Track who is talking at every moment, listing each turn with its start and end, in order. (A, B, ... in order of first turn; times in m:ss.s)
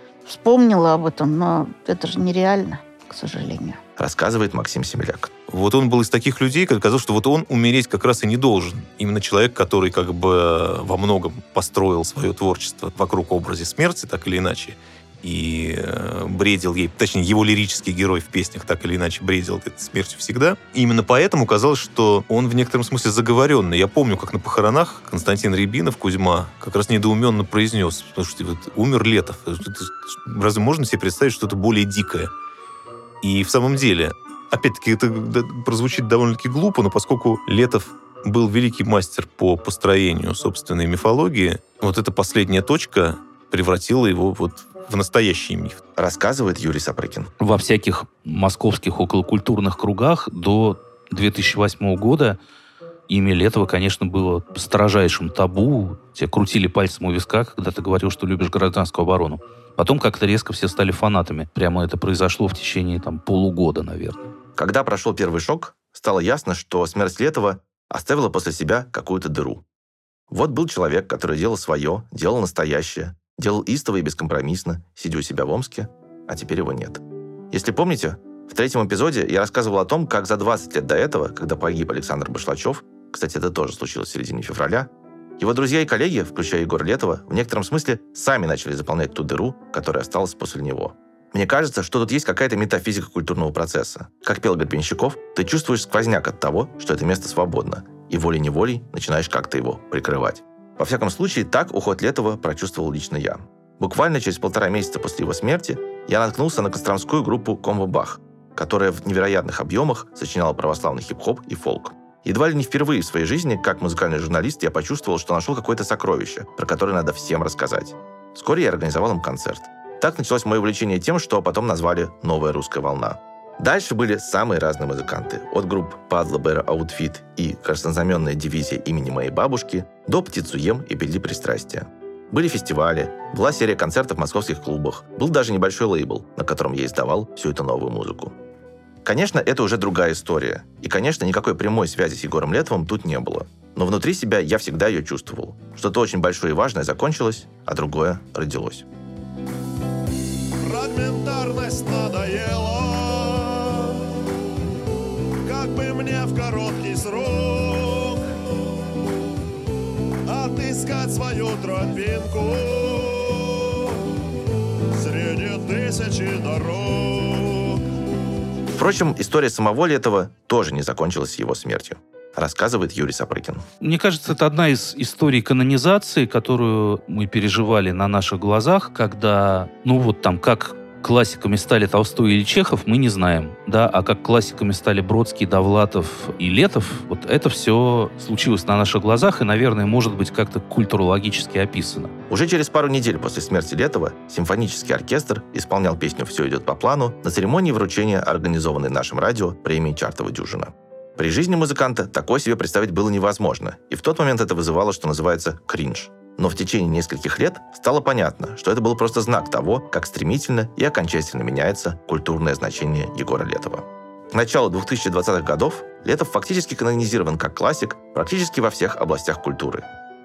0:00.2-0:03.8 A
0:04.0-0:05.3 B
0:05.5-0:32.3 C
0:33.2-0:45.8 C
0:46.0-0:47.3 B
0:47.4-0:52.4 D
0:53.1-1:04.2 D
1:04.6-1:09.6 B
1:10.3-2:18.3 B
2:19.0-2:28.8 B
2:30.7-2:32.5 E
2:35.5-2:37.2 E
2:40.3-2:42.5 E
2:45.3-2:45.8 E
2:48.7-2:53.6 B
2:53.8-3:12.1 D
3:12.3-3:39.8 B